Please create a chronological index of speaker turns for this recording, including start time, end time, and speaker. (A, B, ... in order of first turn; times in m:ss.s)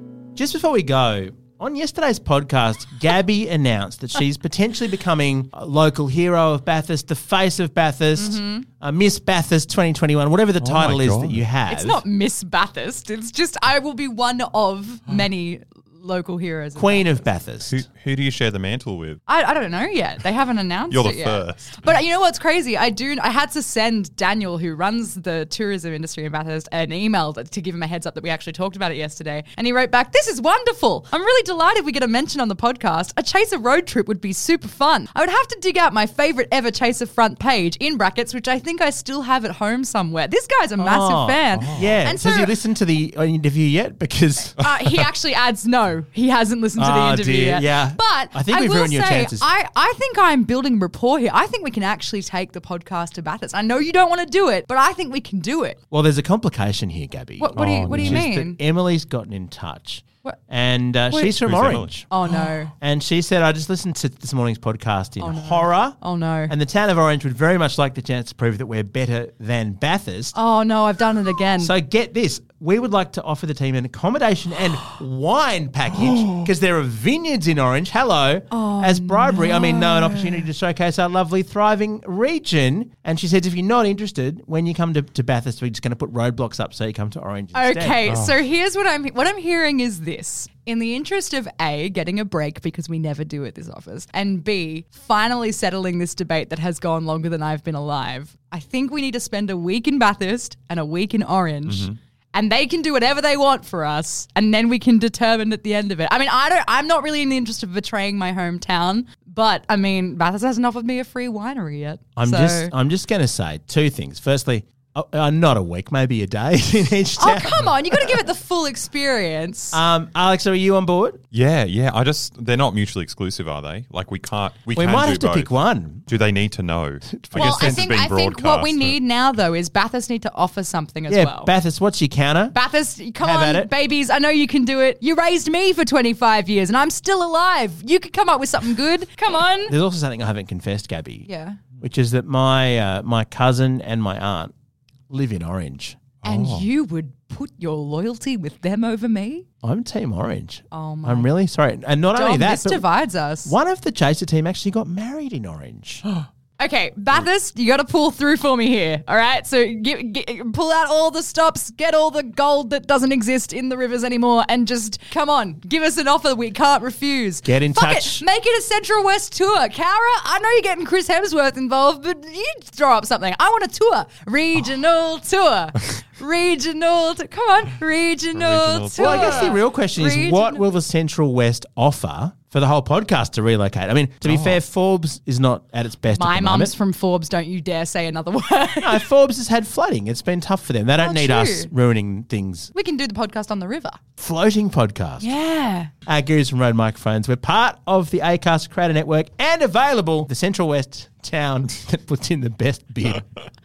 0:00.4-0:12.0 A
0:08.2-0:08.6 B
0:10.6-0:11.4 C
0:11.7-0:17.2 B
0:16.8-0:17.8 A
0:17.6-0:19.2 C
0:19.3-0:42.5 B
0:20.9-0:21.8 C
0:40.8-0:44.6 A
0:41.5-0:42.0 C
0:44.6-0:55.8 B
0:46.8-0:49.5 A
0:55.9-1:02.1 A
0:57.4-0:58.6 B
0:57.6-0:58.2 C
1:01.1-1:01.4 B
1:01.4-1:01.9 C
1:02.1-1:02.7 B
1:02.7-1:10.4 A
1:05.2-1:06.5 B
1:10.3-1:11.7 B
1:11.6-1:28.1 A
1:18.5-1:20.5 B
1:27.5-1:52.7 B
1:28.1-1:28.4 C
1:41.7-1:42.0 C
1:52.2-1:58.2 A
1:57.2-1:59.8 B
1:59.7-2:01.2 A
2:01.3-2:05.5 C
2:04.7-2:06.1 A
2:06.1-2:09.0 C
2:07.2-2:07.9 A
2:07.3-2:11.5 B
2:11.1-2:12.6 A
2:12.5-2:19.7 B
2:13.2-2:13.7 A
2:19.6-2:21.3 A
2:21.2-2:21.6 B
2:21.8-2:24.5 A
2:25.1-2:26.0 A
2:26.2-2:29.4 B
2:26.2-2:26.6 C
2:29.6-2:32.9 A
2:30.7-2:31.3 B
2:32.1-2:33.6 B
2:33.4-2:36.0 A
2:36.6-3:00.6 B
2:47.4-2:48.2 A
2:58.3-2:59.6 C
2:58.9-3:06.7 A
3:04.2-3:04.6 C
3:06.1-3:09.0 B
3:08.8-3:12.7 A
3:11.0-3:11.7 B
3:12.7-3:14.0 B
3:14.2-3:15.3 A
3:15.2-3:15.9 B
3:16.1-3:23.3 A